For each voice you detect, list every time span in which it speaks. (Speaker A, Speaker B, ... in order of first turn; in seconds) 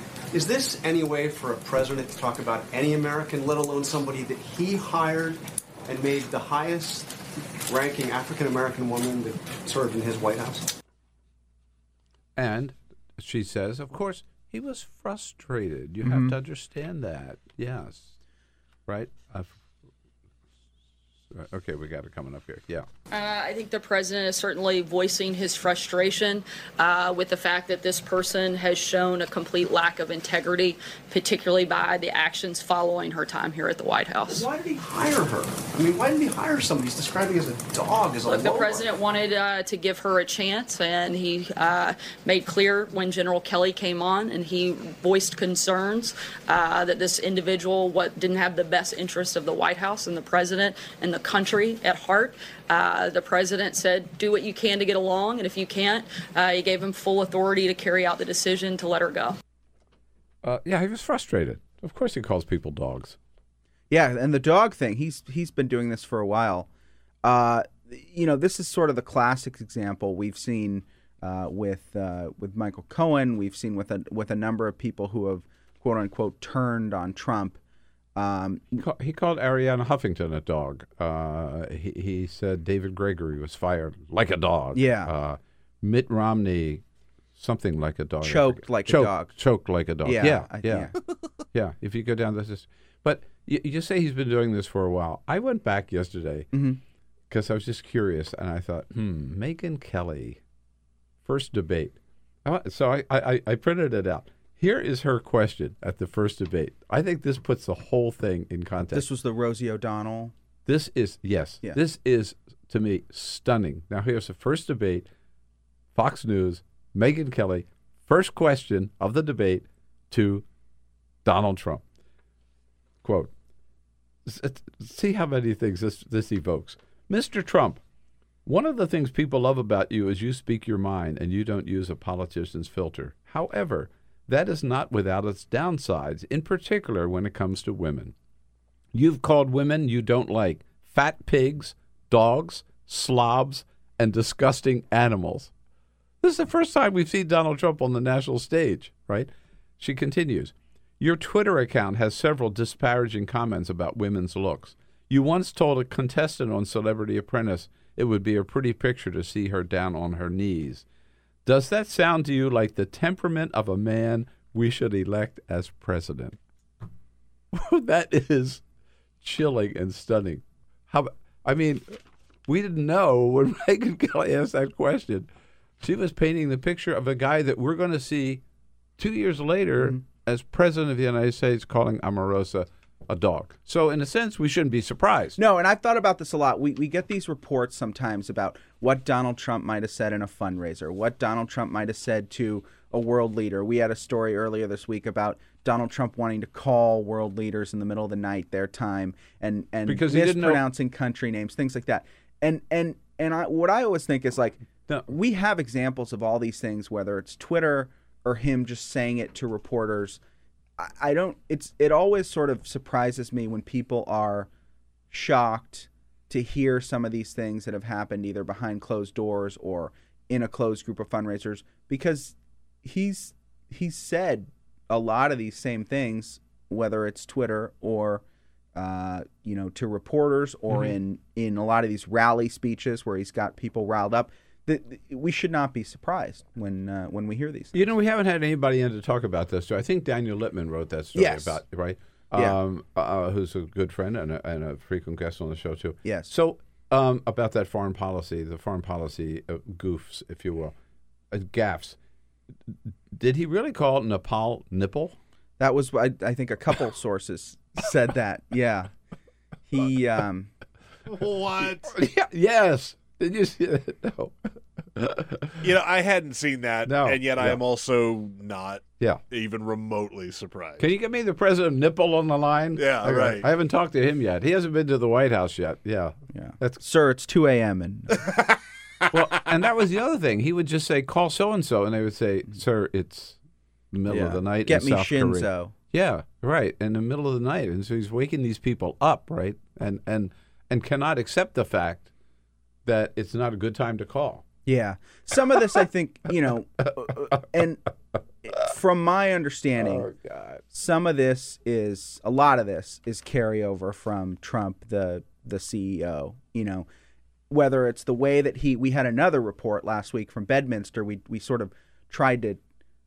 Speaker A: 0.3-10.7, 34.3-38.9
Speaker B: 12.3-18.2, 18.9-19.6, 21.3-22.9, 60.4-63.2, 78.8-86.8, 87.3-90.9, 91.5-96.5, 97.3-100.4, 101.2-109.0, 110.7-115.1, 115.9-120.4, 121.2-121.8, 123.0-123.3, 124.2-127.8, 128.4-138.1, 138.9-145.5, 146.2-160.8, 161.4-166.4, 167.5-168.6, 169.2-175.3, 175.8-178.4, 179.0-185.4, 199.8-200.6, 230.7-230.9, 237.7-250.7, 251.3-252.0, 253.1-255.1, 261.6-264.4, 264.9-265.6, 266.9-267.6, 270.8-276.8, 279.1-283.4, 283.9-292.1, 292.9-294.4, 299.8-300.6
Speaker C: 16.0-16.3, 63.9-66.7, 67.2-77.6, 78.2-78.8, 84.7-85.1, 88.2-89.4, 90.0-90.9, 96.5-96.8, 108.9-110.3, 185.4-210.2, 210.8-214.5, 215.1-228.2, 228.8-237.7, 241.1-241.6, 246.0-246.3, 255.6-258.9, 259.7-260.5, 276.3-278.1, 284.1-285.7, 294.6-297.8, 298.4-300.1, 300.7-306.9, 307.5-312.6
Speaker D: 23.1-34.5, 38.2-59.4
Speaker E: 261.1-261.9, 265.6-270.8, 272.8-273.5, 278.2-278.6